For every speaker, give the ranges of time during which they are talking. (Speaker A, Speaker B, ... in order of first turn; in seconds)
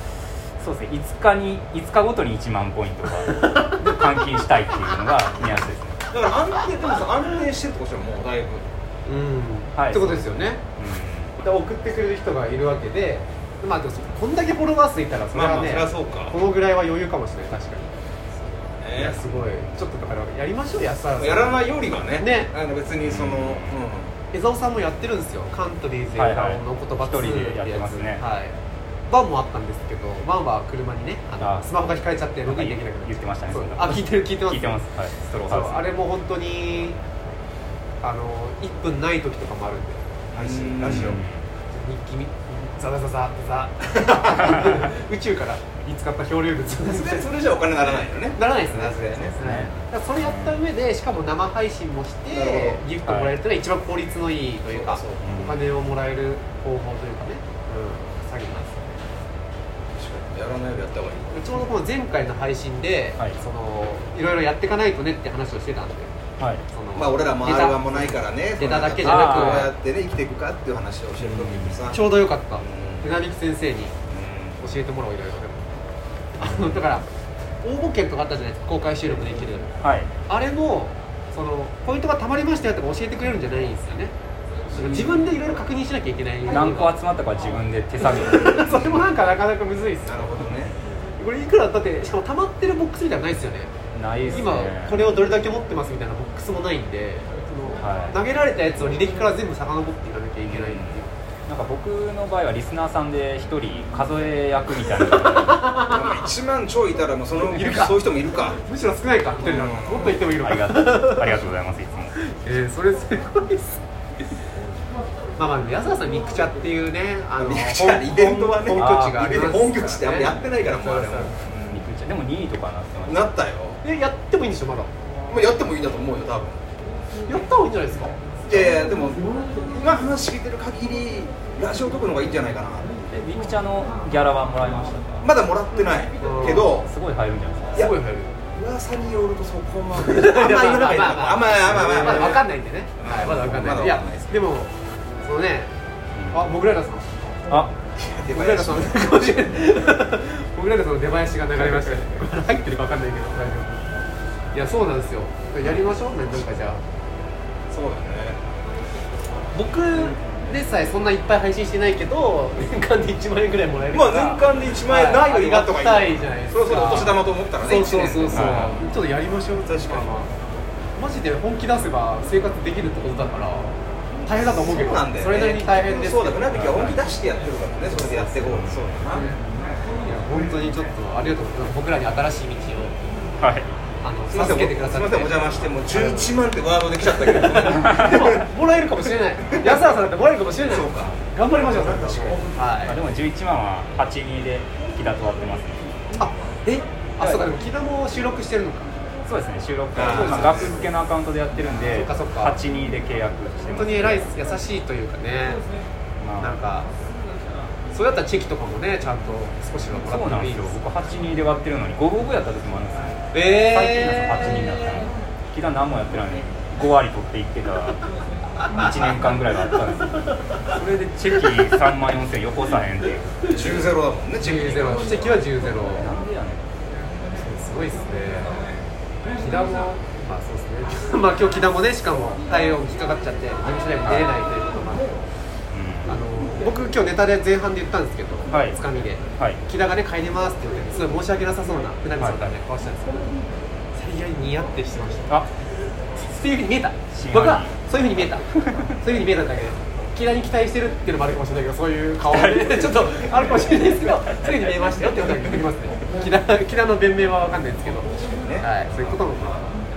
Speaker A: 0.6-6.0, 9.8-11.3, 23.0-23.8, 26.1-28.2, 31.4-31.7, 32.5-35.8, 40.8-41.4, 49.4-50.6, 53.0-53.4, 55.2-55.6, 69.0-69.7, 71.2-71.9, 79.8-80.1, 84.7-85.2, 86.5-89.0, 93.9-95.1, 97.8-98.1, 100.5-105.7, 110.4-112.1, 118.7-119.3, 121.7-123.3, 133.1-135.3, 136.4-137.9, 141.8-142.3, 146.1-146.4, 168.3-168.8, 176.5-176.9, 178.5-178.9, 183.4-183.7, 187.7-188.4, 192.8-195.8, 197.2-197.4, 199.2-204.3, 206.2-206.6, 210.0-218.0, 218.6-223.3, 225.8-226.6, 234.0-234.3, 235.7-236.2, 238.5-238.8, 242.2-242.5, 247.1-247.7, 248.5-248.9, 252.3-253.1
Speaker B: 3.3-4.1, 9.1-10.6, 11.4-22.5, 24.3-28.6, 29.1-34.8, 35.5-37.0, 38.0-41.2, 41.7-58.9, 61.3-66.1, 66.7-69.7, 71.9-73.9, 74.6-75.7, 76.4-77.0, 77.6-79.7, 80.3-84.1, 84.7-86.9, 88.0-90.5, 91.2-93.7, 94.3-101.0, 105.4-106.2, 107.4-108.0, 108.6-111.4, 112.2-113.8, 115.4-121.4, 123.8-124.9, 127.3-128.2, 136.2-136.8, 137.7-138.3, 139.9-145.7, 146.3-147.1, 148.3-153.8, 154.5-156.8, 159.5-170.3, 171.0-173.7, 174.2-177.0, 177.9-178.5, 179.1-179.3, 180.0-182.9, 184.0-186.3, 187.1-193.0, 196.2-198.9, 200.0-200.7, 201.8-202.6, 203.7-205.6, 206.4-206.9, 207.9-210.8, 213.3-215.0, 223.5-223.8, 224.4-226.1, 227.3-228.6, 229.4-235.2, 236.1-243.3, 243.9-245.4, 246.1-258.1, 258.6-259.7
Speaker C: 6.1-8.6, 15.3-16.3, 18.8-19.3, 21.2-24.1, 40.3-41.2, 46.8-49.4, 52.3-52.8, 54.7-55.2, 60.0-61.2, 66.9-72.1, 72.6-73.1, 74.1-74.6, 90.0-90.7, 105.9-108.6, 109.4-110.2, 117.4-121.8, 123.0-123.8, 125.3-126.6, 128.5-132.9, 135.2-136.9, 138.5-142.4, 143.0-144.4, 147.9-149.5, 157.7-158.4, 163.9-168.8, 169.7-170.1, 174.3-179.3, 184.3-188.4, 189.4-189.9, 190.7-192.4, 199.9-200.8, 223.4-225.4